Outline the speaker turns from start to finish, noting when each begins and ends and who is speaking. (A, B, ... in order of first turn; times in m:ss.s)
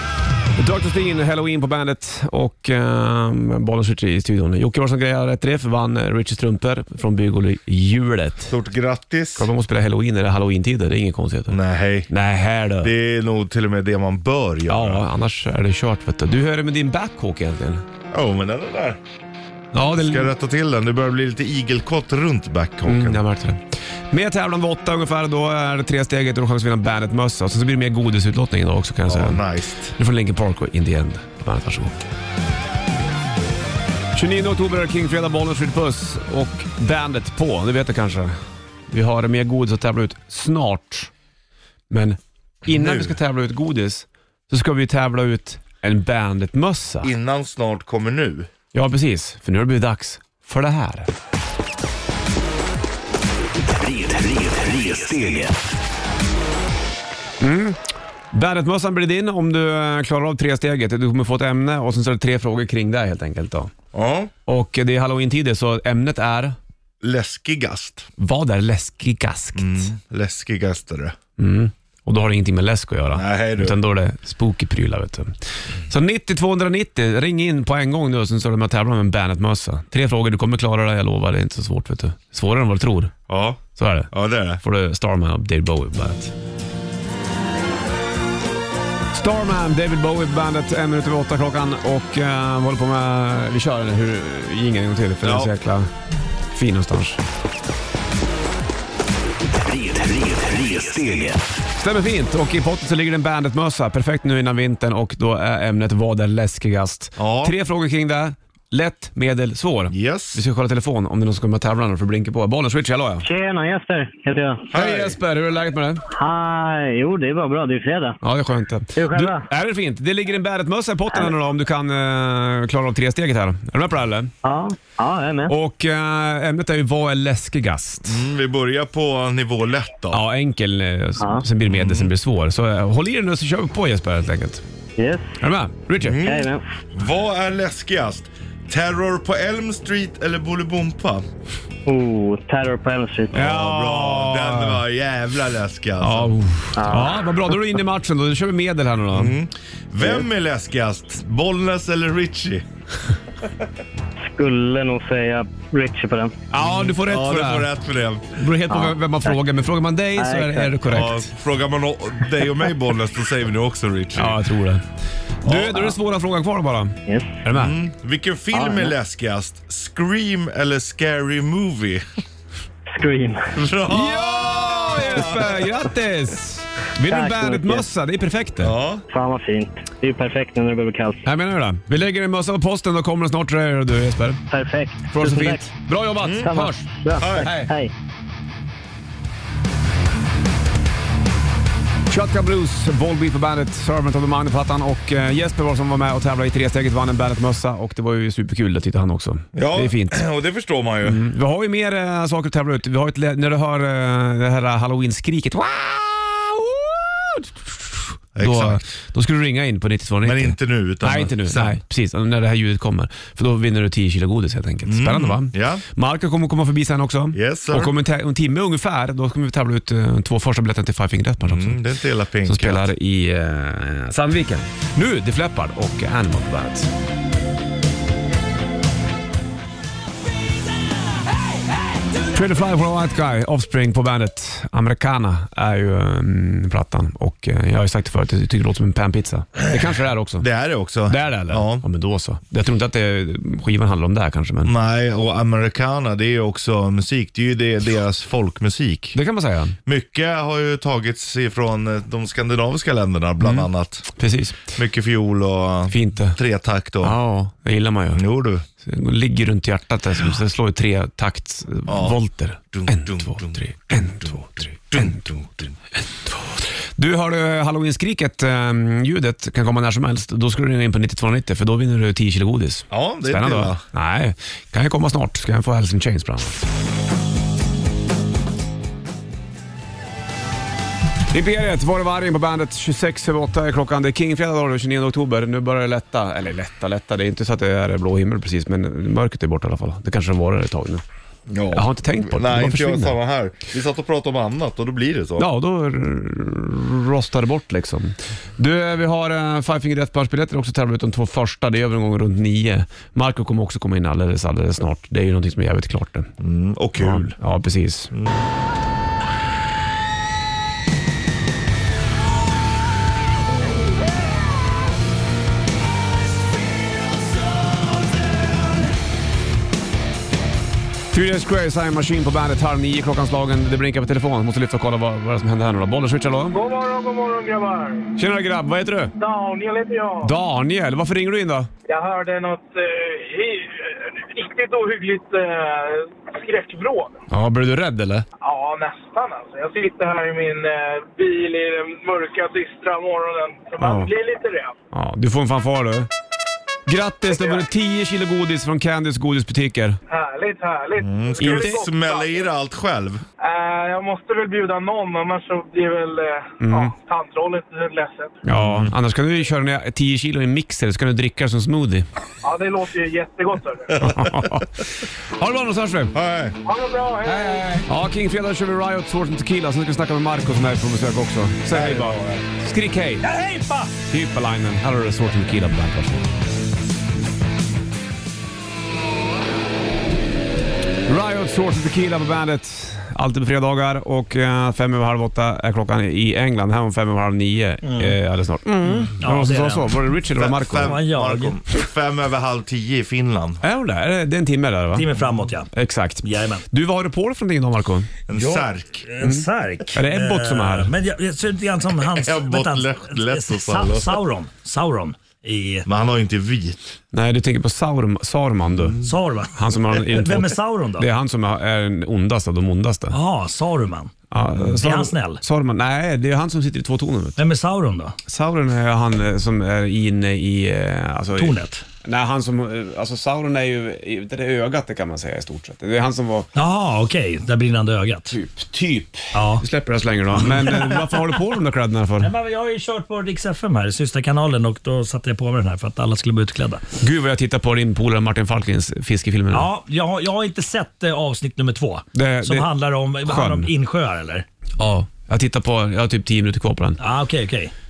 0:00.6-0:08.6 A
0:08.5-0:09.5 B
0:09.4-0:12.9 A
0:11.5-0:12.1 B
0:12.8-0:15.0 B
0:14.7-0:17.8 A
0:18.1-0:19.0 B
0:19.7-0:20.3 A
0:20.0-0:23.2 B
0:22.9-0:32.0 A
0:29.1-0:30.0 B
0:34.2-0:41.1 A
0:41.9-0:47.1 A
0:42.7-0:43.2 B
0:47.0-0:48.5 B
0:48.7-0:51.1 A
0:53.7-0:55.6 C
0:57.4-0:57.8 A
0:58.3-1:03.7 A
1:03.9-1:04.3 B
1:04.5-1:06.6 A
1:07.0-1:08.1 B
1:08.2-1:09.9 A
1:09.6-1:11.2 B
1:11.4-1:15.3 A
1:13.1-1:13.8 B
1:15.9-1:23.1 A
1:23.3-1:24.6 B
1:23.8-1:26.3 A
1:29.1-1:35.9 A
1:35.2-1:35.5 B
1:36.5-1:37.2 A
1:39.6-1:41.4 C
1:41.8-1:53.2 A
1:47.2-1:47.6 B
1:49.9-1:50.4 B
1:53.2-1:54.6 D
1:54.7-1:55.2 B
1:54.7-1:56.0 A
1:56.1-1:58.2 D
1:58.2-2:04.3 A
1:59.0-1:59.4 D
2:04.4-2:05.5 D
2:05.5-2:08.2 A
2:08.1-2:10.2 B
2:10.1-2:14.6 A
2:11.7-2:12.1 B
2:15.0-2:15.3 D
2:15.4-2:16.2 A
2:16.0-2:21.2 B
2:16.2-2:16.6 D
2:21.9-2:23.3 D
2:23.3-2:24.8 A
2:23.3-2:26.3 B
2:26.0-2:29.4 A
2:26.8-2:27.2 D
2:29.1-2:32.6 B
2:34.2-2:36.4 D
2:36.5-2:37.7 A
2:36.6-2:38.4 B
2:38.4-2:41.3 A
2:38.7-2:39.4 D
2:40.2-2:40.7 D
2:40.9-2:44.4 B
2:44.2-2:44.9 A
2:45.4-2:47.8 A
2:45.4-2:46.0 B
2:47.1-2:47.4 D
2:47.5-2:52.0 B
2:48.5-2:48.9 D
2:52.9-2:53.6 D
2:53.5-2:55.7 B
2:53.9-2:58.7 A
2:57.1-2:57.8 D
2:58.6-2:59.0 B
2:59.1-3:01.2 D
3:01.2-3:04.4 A
3:04.5-3:05.7 D
3:05.1-3:07.7 A
3:06.2-3:06.5 B
3:06.4-3:07.9 D
3:07.2-3:07.5 B
3:12.1-3:20.3 A
3:19.6-3:21.2 B
3:21.0-3:41.8 A
3:28.4-3:28.8 B
3:30.2-3:31.8 B
3:34.9-3:35.8 B
3:37.3-3:37.9 B
3:41.4-3:42.9 B
3:42.5-3:46.9 A
3:52.3-4:00.5 A
4:00.4-4:01.8 B
4:01.1-4:04.7 A
4:04.6-4:09.2 B
4:09.2-4:09.8 A
4:09.9-4:14.1 B
4:13.4-4:14.8 A
4:14.7-4:17.2 B
4:15.9-4:16.4 A
4:17.0-4:18.2 A
4:18.1-4:18.6 B
4:18.8-4:25.2 A
4:21.9-4:22.2 B
4:22.7-4:25.7 B
4:26.3-4:36.7 A
4:32.9-4:33.8 B
4:41.3-4:51.0 A
4:51.5-4:55.5 B
4:51.7-4:53.2 A
4:55.4-5:06.3 A
5:06.4-5:07.4 B
5:07.0-5:08.1 A
5:21.1-5:26.6 A
5:26.5-5:28.1 E
5:28.2-5:29.1 A
5:29.2-5:30.4 E
5:30.2-5:31.7 A
5:31.9-5:37.2 E
5:37.3-5:38.3 A
5:38.4-5:44.8 E
5:43.8-5:44.1 A
5:44.9-5:46.1 A
5:46.9-5:50.0 A
5:47.3-5:47.6 E
5:50.1-5:52.4 E
5:51.0-5:53.2 B
5:51.4-5:51.8 A
5:53.4-5:58.4 E
5:56.6-5:56.9 A
5:58.4-6:02.1 A
5:58.6-5:58.9 B
6:02.4-6:04.0 E
6:04.0-6:04.5 B
6:04.0-6:06.1 A
6:06.1-6:06.6 B
6:06.6-6:07.8 E
6:07.2-6:13.3 A
6:11.7-6:12.4 B
6:13.2-6:13.9 F
6:14.1-6:16.3 A
6:21.1-6:31.0 A
6:27.8-6:28.2 F
6:29.2-6:30.0 F
6:30.3-6:33.6 B
6:30.8-6:31.6 F
6:33.6-6:35.1 A
6:34.9-6:35.7 F
6:35.7-6:38.1 A
6:36.2-6:36.6 F
6:38.3-6:39.0 B
6:38.3-6:45.9 F
6:39.2-6:40.9 A
6:42.0-6:44.2 B
6:45.9-6:46.9 B
6:47.1-6:49.0 A
6:48.7-6:49.1 B
6:49.0-6:51.1 F
6:49.6-6:53.2 A
6:53.1-6:54.1 F
6:54.3-6:57.4 A
6:54.7-6:55.4 F
6:57.4-6:58.2 F
6:58.3-7:06.5 A
7:01.4-7:01.8 F
7:06.6-7:08.3 F
7:08.3-7:12.3 A
7:09.3-7:09.6 F
7:10.3-7:11.4 F
7:12.2-7:16.8 F
7:17.0-7:19.7 A
7:19.5-7:24.5 F
7:22.2-7:22.7 A
7:23.2-7:23.7 A
7:24.8-7:27.0 A
7:27.0-7:27.7 F